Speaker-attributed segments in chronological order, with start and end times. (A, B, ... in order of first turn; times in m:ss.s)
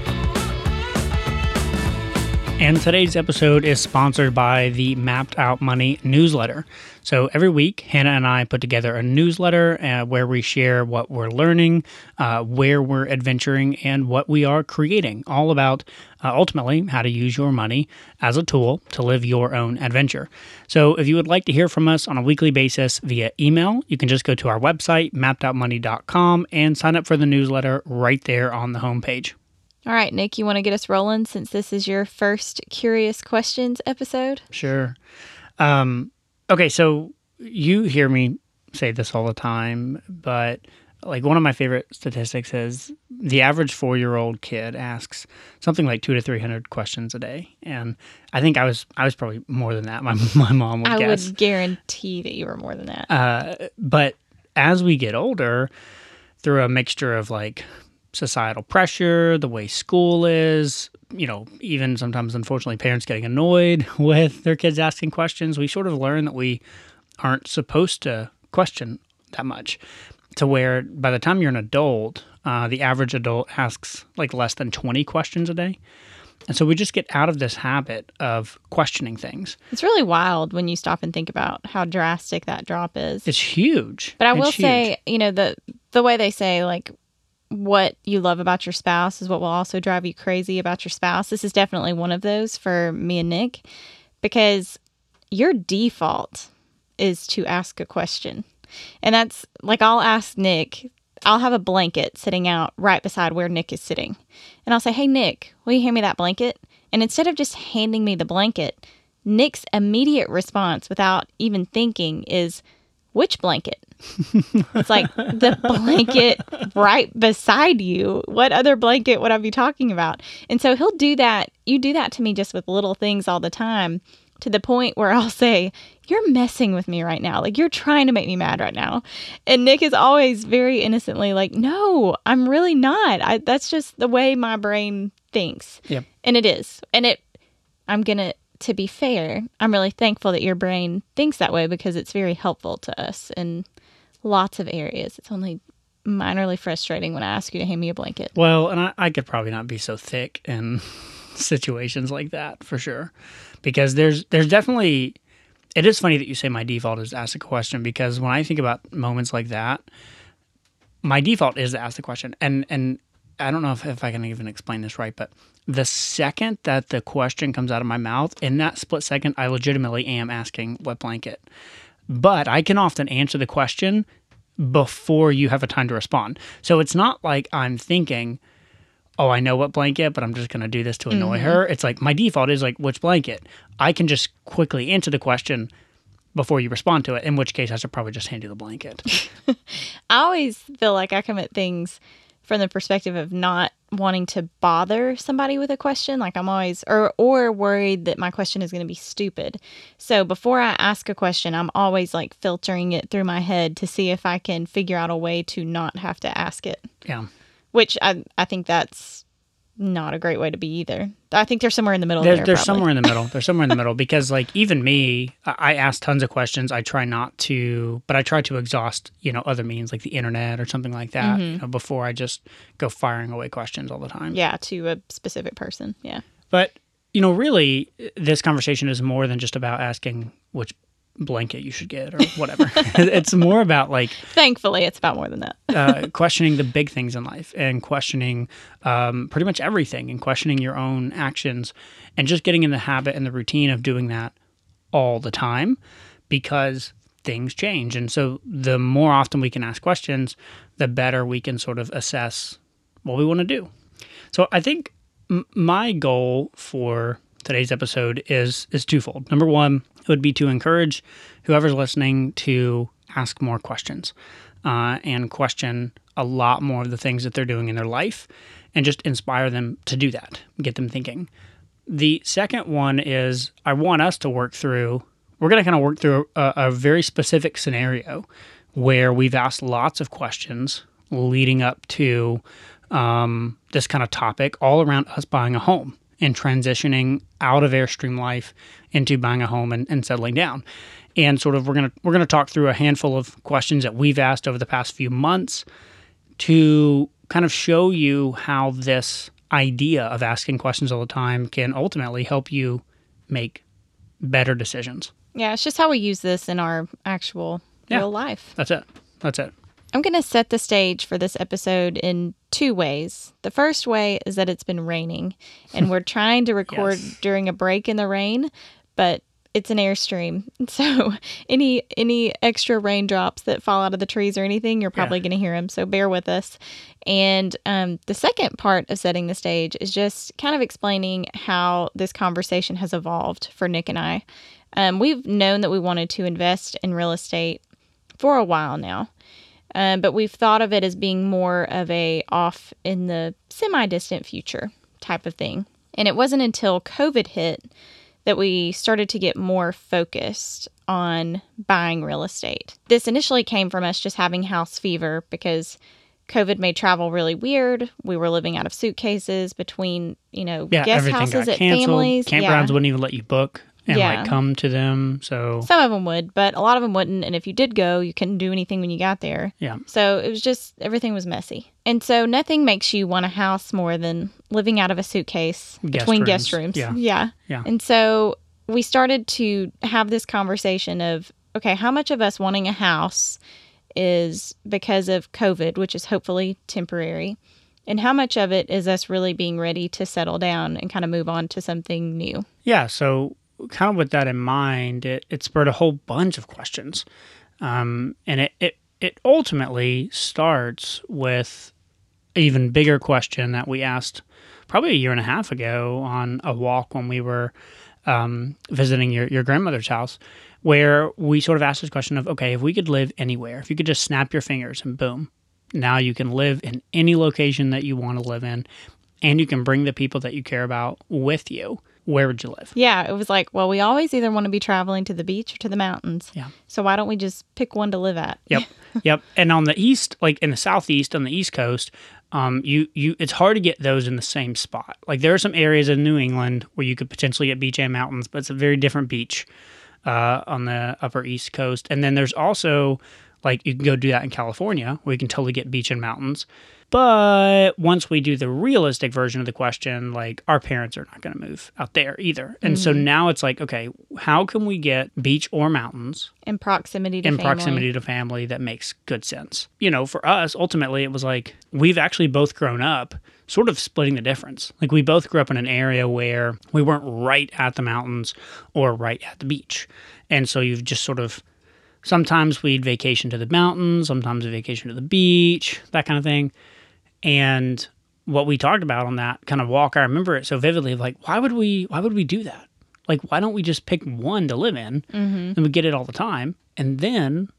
0:02.6-0:29.4 A
0:29.9-0:34.4 B
0:34.5-0:35.0 A
0:35.6-0:51.3 A
0:50.8-0:53.1 B
0:53.1-0:55.7 A
0:56.4-1:06.6 A
1:07.2-1:09.8 A
1:10.4-1:15.8 A
1:16.5-1:19.6 A
1:19.7-1:23.3 B
1:23.2-1:24.9 A
1:24.2-1:26.9 B
1:27.5-1:33.6 B
1:34.2-1:34.8 B
1:35.3-1:38.5 B
1:39.0-1:52.6 B
1:53.1-1:53.8 B
1:54.7-2:17.2 B
2:17.9-2:23.7 B
2:24.2-2:28.3 B
2:28.3-2:33.1 A
2:33.6-2:35.2 A
2:35.8-2:39.8 A
2:41.0-2:51.4 A
2:52.1-2:54.1 A
2:54.6-2:58.4 A
2:59.2-3:05.7 A
3:01.1-3:01.6 B
3:06.3-3:09.2 A
3:09.5-3:26.9 B
3:27.7-3:29.2 B
3:29.8-3:33.2 B
3:32.2-3:44.4 A
3:41.2-3:41.6 B
3:44.3-3:46.2 B
3:46.5-3:54.2 A
3:52.7-3:53.2 B
3:54.2-3:56.1 B
3:55.7-4:04.3 A
4:04.9-4:13.7 A
4:14.3-4:24.1 A
4:24.6-4:31.3 A
4:31.9-4:50.6 A
4:51.2-4:55.6 A
4:56.4-5:03.6 A
5:04.2-5:05.1 A
5:05.4-5:08.5 B
5:07.9-5:09.5 A
5:09.9-5:34.2 B
5:16.7-5:17.0 A
5:34.8-5:37.6 B
5:38.2-5:39.1 B
5:39.8-5:47.7 B
5:48.2-6:02.8 B
6:00.7-6:05.7 A
6:03.9-6:04.4 B
6:05.6-6:23.4 B
6:15.8-6:17.0 A
6:24.0-6:32.5 B
6:32.6-6:37.0 A
6:37.6-6:41.7 A
6:42.4-6:47.5 A
6:48.1-6:58.6 A
6:59.2-7:02.7 A
7:02.8-7:09.0 B
7:08.5-7:19.5 A
7:20.0-7:36.3 A
7:32.6-7:33.0 B
7:36.4-7:37.9 B
7:37.2-7:51.4 A
7:52.0-7:56.5 A
7:57.2-8:07.5 A
8:05.1-8:05.6 B